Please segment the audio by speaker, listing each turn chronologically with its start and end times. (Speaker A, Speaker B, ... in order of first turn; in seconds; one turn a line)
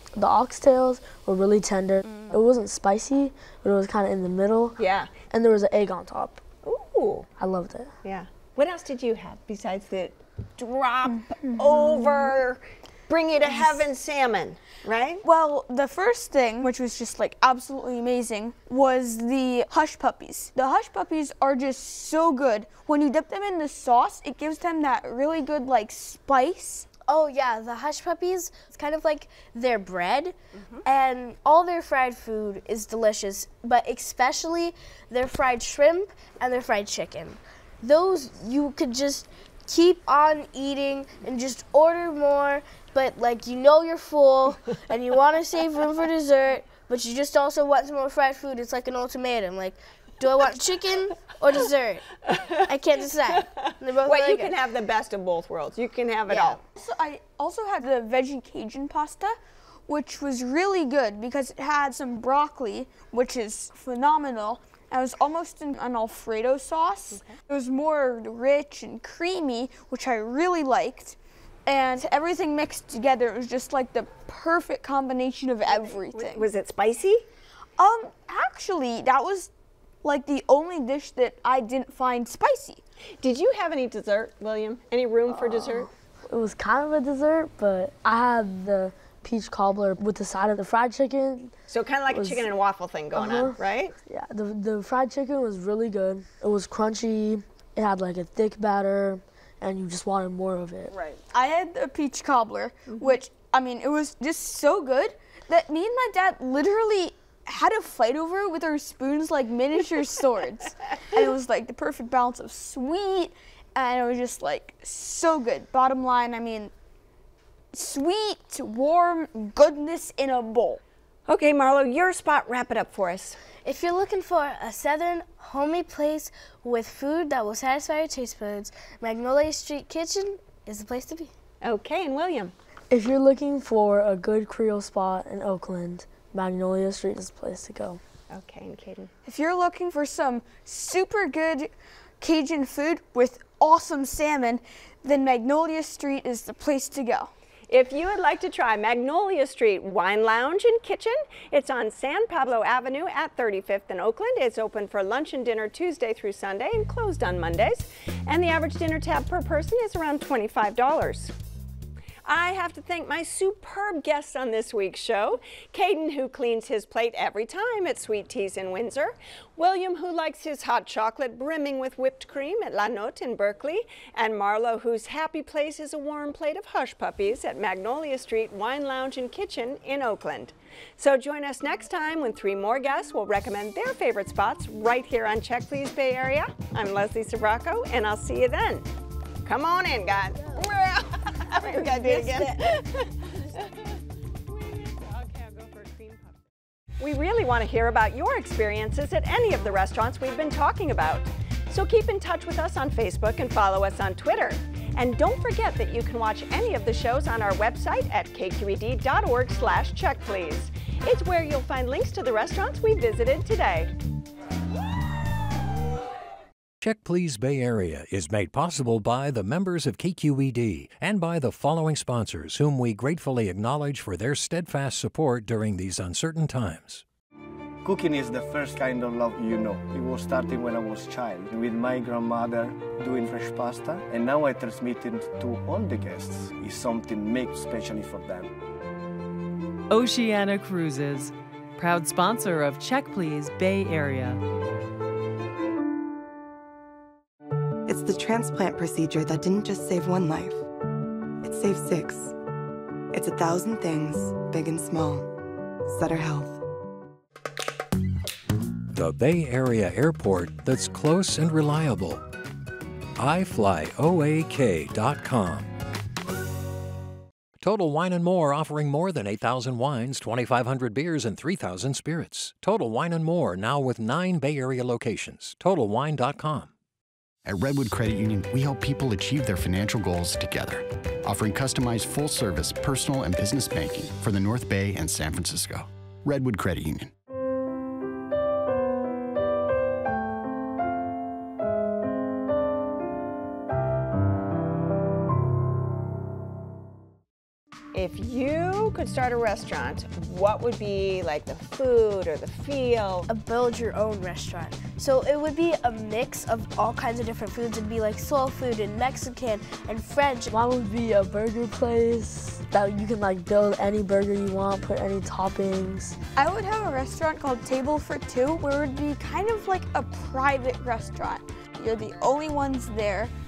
Speaker A: 0.1-4.8
Speaker B: 4.8-5.1
Speaker A: 5.3-6.4
Speaker B: 6.6-7.3
Speaker A: 7.4-7.9
Speaker B: 8.0-15.2
Speaker C: 11.8-12.2
Speaker C: 15.2-26.9
Speaker D: 27.1-30.3
Speaker B: 30.6-30.8
Speaker D: 30.8-54.5
Speaker B: 52.3-52.6
Speaker B: 53.3-56.6
Speaker D: 56.3-56.6
Speaker C: 56.7-59.4
Speaker C: 59.9-76.5
Speaker B: 75.7-77.2
Speaker C: 77.8-79.5
Speaker C: 80.0-82.8
Speaker B: 83.2-85.9
Speaker A: 85.3-91.5
Speaker B: 91.7-93.9
Speaker A: 92.1-92.5
Speaker A: 93.1-100.9
Speaker B: 100.9-101.2
Speaker C: 101.3-116.7
Speaker B: 102.9-103.2
Speaker C: 117.7-120.8
Speaker B: 121.3-123.4
Speaker D: 123.6-131.3
Speaker B: 131.6-132.5
Speaker A: 132.9-138.0
Speaker B: 138.3-139.1
Speaker C: 139.2-147.3
Speaker B: 147.7-161.3
Speaker B: 162.2-188.8
Speaker B: 189.4-193.7
Speaker D: 191.6-192.5
Speaker B: 194.5-196.4
Speaker B: 197.0-213.9
Speaker E: 216.8-227.0
Speaker F: 227.8-238.5
Speaker G: 239.9-244.4
Speaker H: 247.9-250.7
Speaker H: 251.4-252.3
Speaker H: 253.1-255.3
Speaker H: 255.9-256.6
Speaker E: 258.9-262.2
Speaker E: 263.2-265.7
Speaker E: 267.6-276.7
Speaker I: 277.4-287.1
Speaker B: 297.9-303.2
Speaker D: 303.3-310.5
Speaker A: 310.5-316.2
Speaker C: 316.4-323.3